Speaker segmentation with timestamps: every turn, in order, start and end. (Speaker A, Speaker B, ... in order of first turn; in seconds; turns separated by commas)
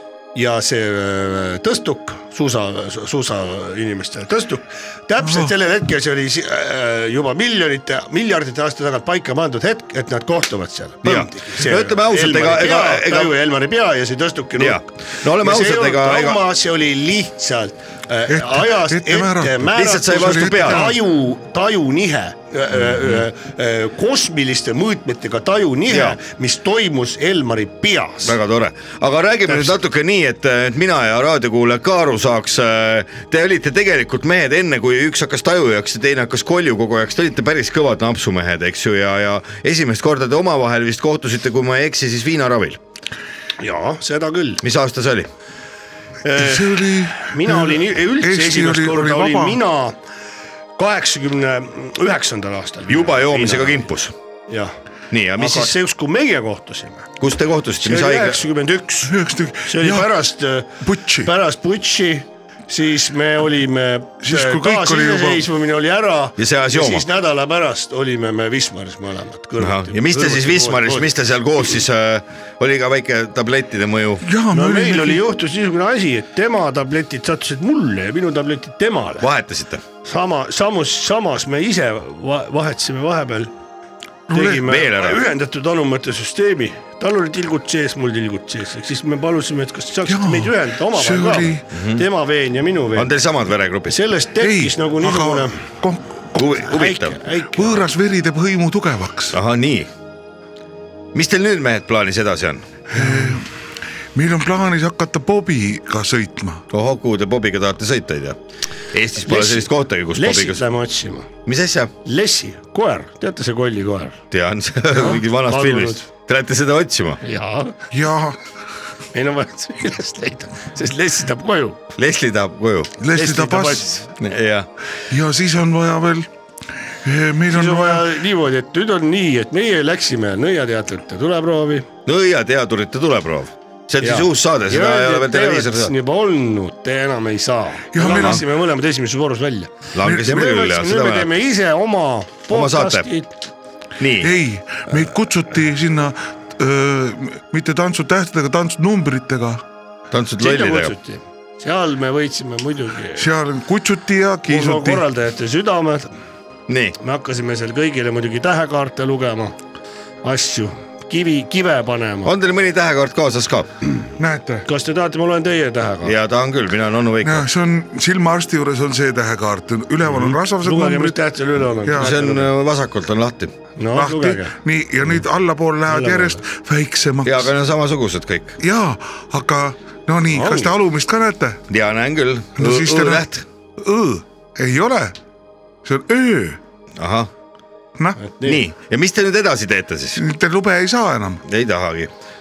Speaker A: 0.3-28.4, Speaker B: 5.2-5.5, Speaker C: 11.0-13.3, Speaker C: 14.6-16.4, Speaker B: 18.3-21.0, Speaker C: 19.8-20.9, Speaker C: 22.9-23.2, Speaker C: 25.9-26.2, Speaker C: 28.2-42.8, Speaker A: 43.6-44.6, Speaker C: 44.6-45.3, Speaker A: 46.2-50.0, Speaker B: 46.4-49.6, Speaker A: 50.8-53.8, Speaker C: 52.9-54.1, Speaker A: 54.5-54.7, Speaker C: 55.1-55.7, Speaker A: 55.4-57.1, Speaker C: 57.2-58.4, Speaker A: 57.8-71.1, Speaker B: 59.0-60.2, Speaker B: 60.8-61.3, Speaker B: 64.2-65.5, Speaker C: 66.4-67.1, Speaker C: 69.6-74.3, Speaker B: 74.2-75.2, Speaker A: 74.5-79.3, Speaker C: 79.2-79.8, Speaker A: 80.0-83.5, Speaker A: 84.3-93.1, Speaker C: 84.4-85.2, Speaker B: 90.1-91.7, Speaker C: 91.7-92.0, Speaker C: 92.9-94.0, Speaker A: 93.9-95.5, Speaker B: 94.4-96.6, Speaker C: 96.4-97.2, Speaker A: 96.6-97.8, Speaker B: 97.5-99.4, Speaker C: 99.3-99.9, Speaker C: 101.1-102.7, Speaker B: 102.9-103.5, Speaker B: 104.1-106.7, Speaker C: 106.7-108.4, Speaker C: 108.9-110.6, Speaker A: 109.2-111.3, Speaker C: 111.5-111.9, Speaker A: 112.0-114.2, Speaker C: 114.3-117.2, Speaker A: 114.9-116.1, Speaker A: 117.2-117.8, Speaker B: 117.9-118.4, Speaker A: 119.1-121.8, Speaker C: 122.0-123.0, Speaker B: 123.0-123.9, Speaker A: 123.1-124.1, Speaker C: 124.2-124.7, Speaker B: 125.1-126.3, Speaker B: 127.0-128.1, Speaker A: 127.5-131.9, Speaker C: 132.1-135.9, Speaker A: 134.0-143.3, Speaker B: 137.9-138.4, Speaker C: 138.0-138.4, Speaker C: 139.9-141.3, Speaker B: 140.0-140.3, Speaker C: 142.5-143.1, Speaker C: 144.0-144.3, Speaker B: 144.2-149.6, Speaker C: 150.1-150.9, Speaker A: 150.4-153.3, Speaker B: 153.2-155.1, Speaker A: 154.5-156.1, Speaker C: 156.7-157.0, Speaker A: 157.0-159.6, Speaker A: 160.2-162.3, Speaker C: 162.2-163.7, Speaker B: 164.2-164.7, Speaker A: 164.7-166.2, Speaker C: 166.0-167.5, Speaker B: 167.2-171.2, Speaker A: 170.1-172.5, Speaker B: 171.8-172.2, Speaker C: 172.0-173.5, Speaker A: 173.8-174.6, Speaker B: 173.9-177.5, Speaker A: 175.9-176.4, Speaker C: 177.2-178.6, Speaker B: 178.6-181.6, Speaker A: 180.3-180.7, Speaker C: 181.7-183.4, Speaker B: 182.6-183.3, Speaker B: 183.8-185.2, Speaker B: 185.8-186.6, Speaker C: 187.0-187.3, Speaker A: 188.2-188.6, Speaker C: 188.4-190.2, Speaker B: 190.2-191.4, Speaker C: 191.5-192.1